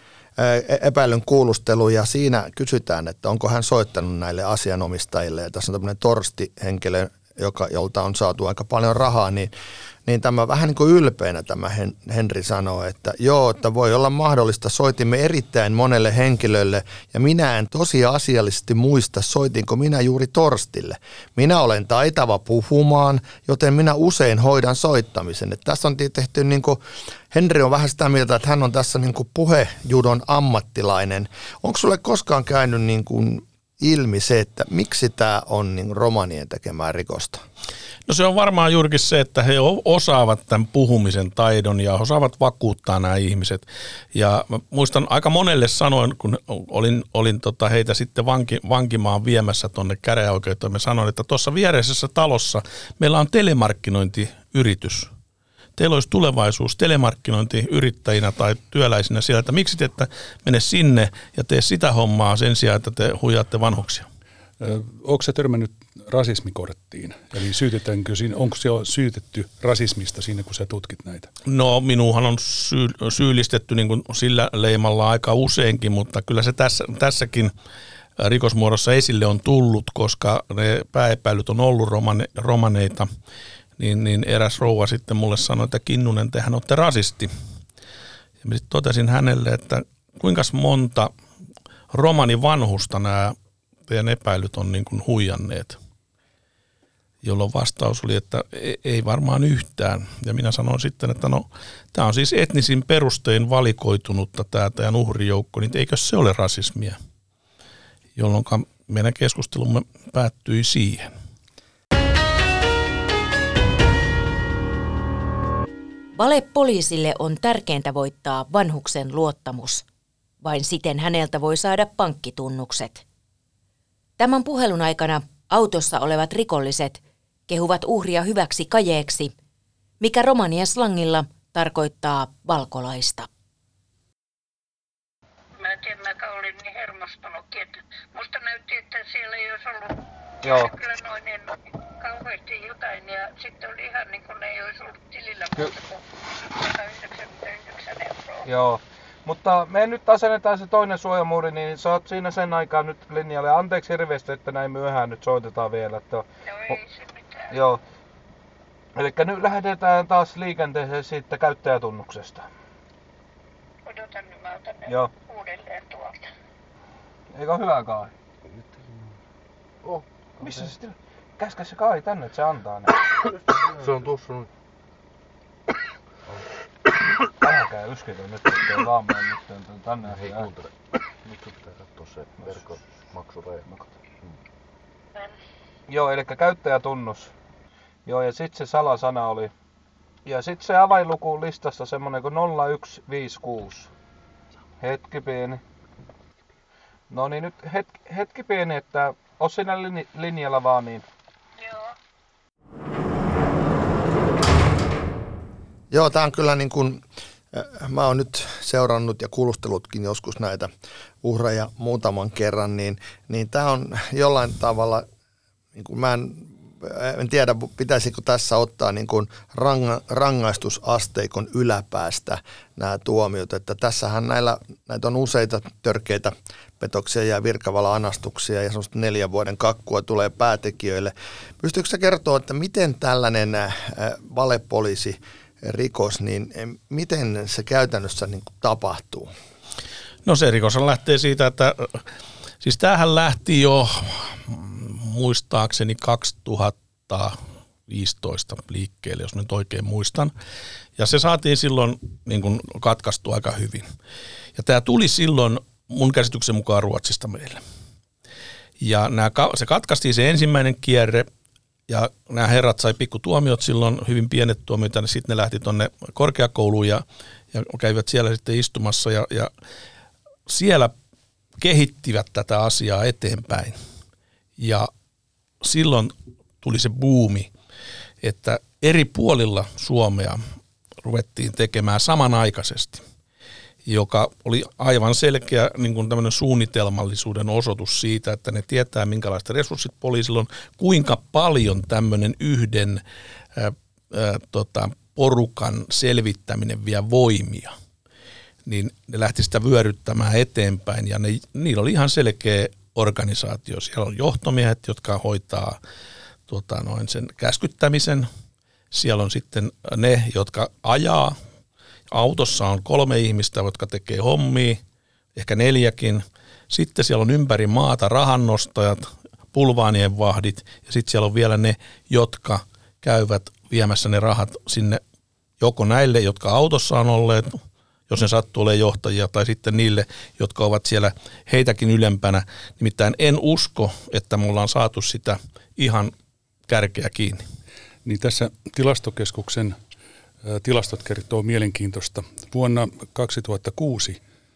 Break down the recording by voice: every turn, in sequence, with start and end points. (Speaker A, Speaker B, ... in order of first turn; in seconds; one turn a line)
Speaker A: 0.4-9.5
Speaker A: 10.1-37.5
Speaker B: 38.1-55.1
Speaker B: 55.8-64.1
Speaker C: 64.6-71.3
Speaker B: 71.5-77.5
Speaker B: 78.2-83.1
Speaker B: 83.8-87.3
Speaker B: 88.4-91.1
Speaker B: 91.9-93.3
Speaker B: 93.9-95.8
Speaker B: 97.2-107.0
Speaker B: 108.2-111.1
Speaker D: 116.2-119.8
Speaker D: 120.4-123.0
Speaker D: 124.2-129.3
Speaker D: 130.0-133.3
Speaker E: 135.6-148.5
Speaker F: 140.4-140.7
Speaker F: 148.5-156.8
Speaker E: 156.4-157.6
Speaker F: 157.5-157.8
Speaker F: 158.9-162.5
Speaker E: 163.8-166.3
Speaker F: 167.3-168.1
Speaker G: 168.5-169.2
Speaker G: 169.8-170.7
Speaker F: 170.4-173.2
Speaker G: 173.3-174.5
Speaker F: 177.4-180.5
Speaker G: 180.0-184.4
Speaker F: 185.9-187.3
Speaker F: 188.1-189.5
Speaker F: 190.3-193.9
Speaker F: 194.8-195.6
Speaker F: 197.1-201.1
Speaker E: 201.6-201.9
Speaker A: 205.9-210.7
Speaker A: 211.2-215.1
Speaker A: 215.8-239.3
Speaker B: 240.2-242.0
Speaker B: 242.6-250.3
Speaker B: 251.0-253.9
Speaker B: 254.6-257.6
Speaker B: 258.8-261.3
Speaker B: 261.9-269.5
Speaker B: 270.5-270.9
Speaker B: 271.6-273.8
Speaker B: 274.6-274.9
Speaker B: 275.6-277.5
Speaker B: 278.2-280.4
Speaker B: 281.0-283.0
Speaker B: 283.9-293.0
Speaker B: 293.6-297.7
Speaker B: 298.6-305.8
Speaker B: 306.5-308.3
Speaker B: 308.9-311.4
Speaker B: 312.1-314.8
Speaker B: 315.4-325.0
Speaker B: 325.6-336.1
Speaker B: 336.7-337.4
Speaker C: 338.1-339.8
Speaker C: 340.4-344.2